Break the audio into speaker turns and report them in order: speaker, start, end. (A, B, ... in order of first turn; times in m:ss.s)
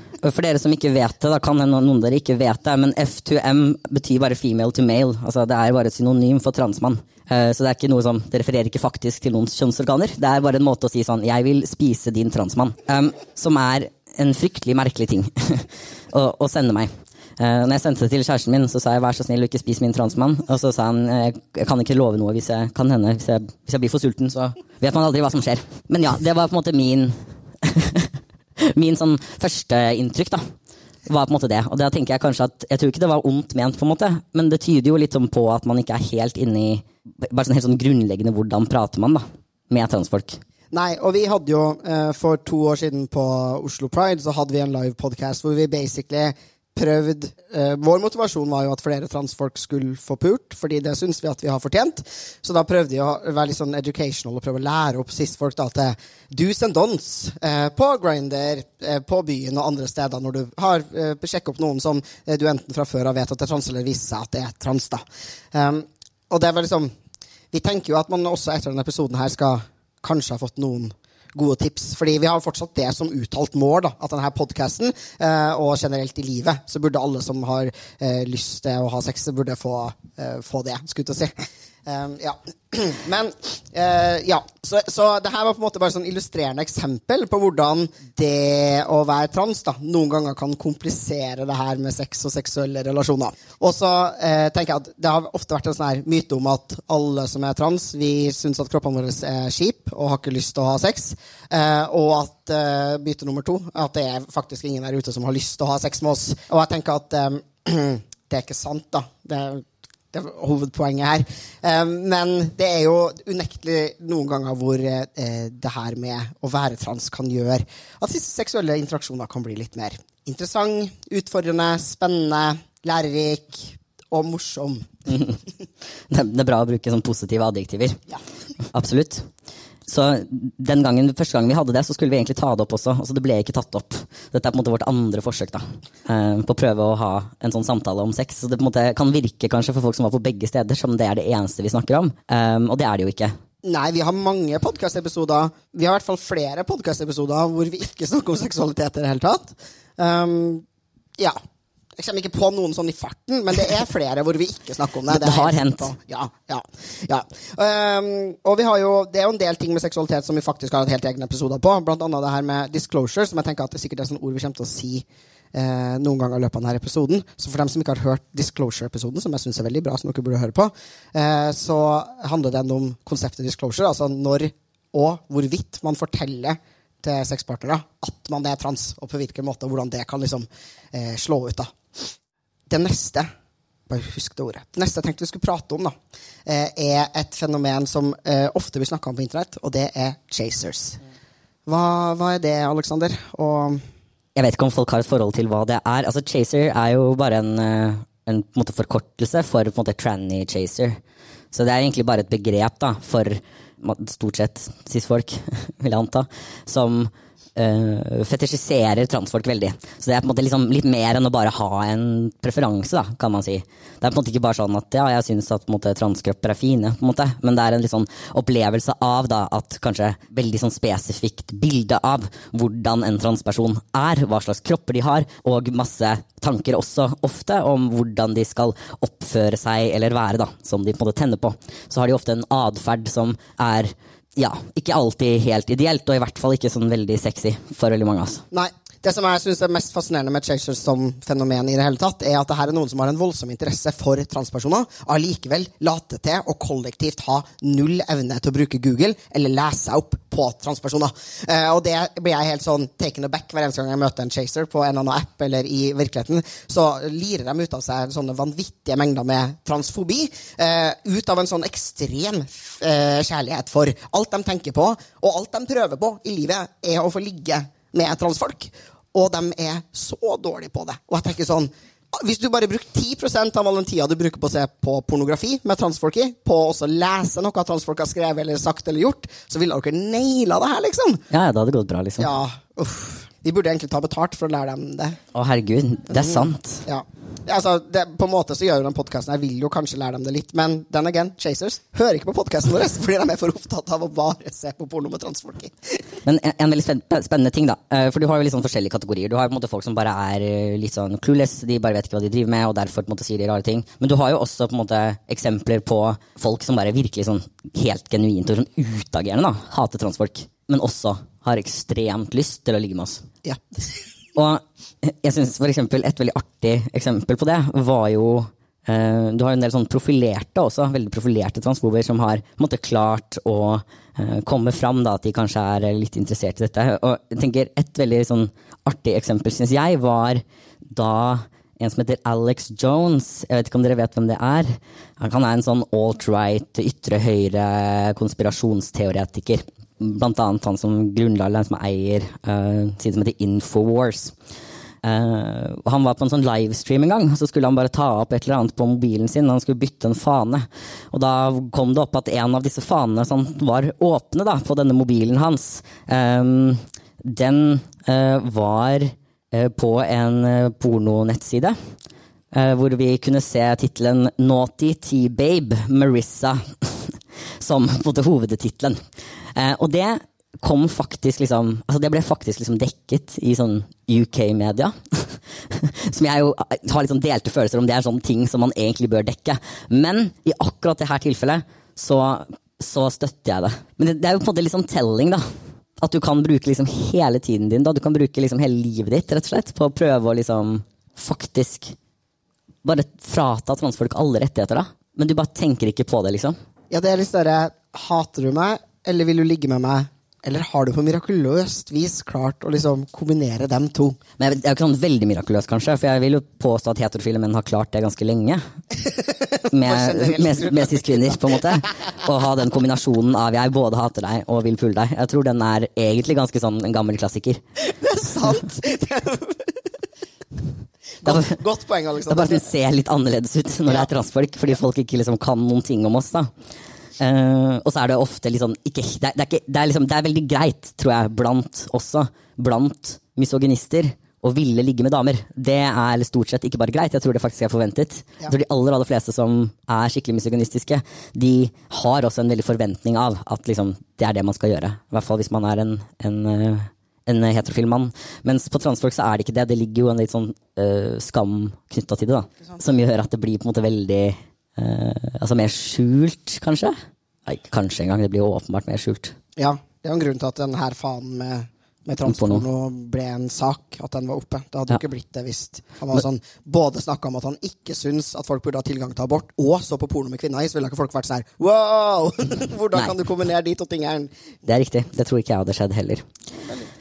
0:00.2-0:28.1 A
0:28.6-0:30.4 A
0:31.1-0:40.4 A
0:40.7-1:06.9 B
1:07.5-2:04.9 B
2:05.1-2:05.4 A
2:06.1-2:08.0 A
2:08.7-2:09.3 A
2:09.9-2:23.3 A
2:23.6-2:30.6 B
2:32.0-3:02.1 B
2:35.1-2:35.9 A
3:02.7-3:03.3 B
3:03.9-3:05.9 B
3:06.4-3:11.0 B
3:11.6-3:13.8 B
3:14.4-3:21.0 A
3:21.5-3:58.4 A
3:58.5-4:41.2 B
4:41.3-4:42.3 A
4:42.2-4:45.2 B
4:45.3-4:46.8 A
4:46.1-4:56.0 B
4:56.2-5:13.2 A
5:14.3-5:44.3 A
5:45.0-6:01.8 A
6:02.5-6:09.0 A
6:09.6-6:25.4 A
6:26.0-6:32.0 A
6:32.8-6:36.6 A
6:36.9-6:44.2 B
6:44.4-6:48.6 A
6:49.0-6:51.6 B
6:49.7-6:57.6 A
6:57.8-6:59.9 B
7:01.2-7:02.7 B
7:01.2-7:01.6 A
7:02.3-7:06.5 A
7:07.2-7:36.9 A
7:37.4-7:39.3 A
7:39.6-7:54.3 B
7:42.2-7:42.6 A
7:54.6-7:56.2 A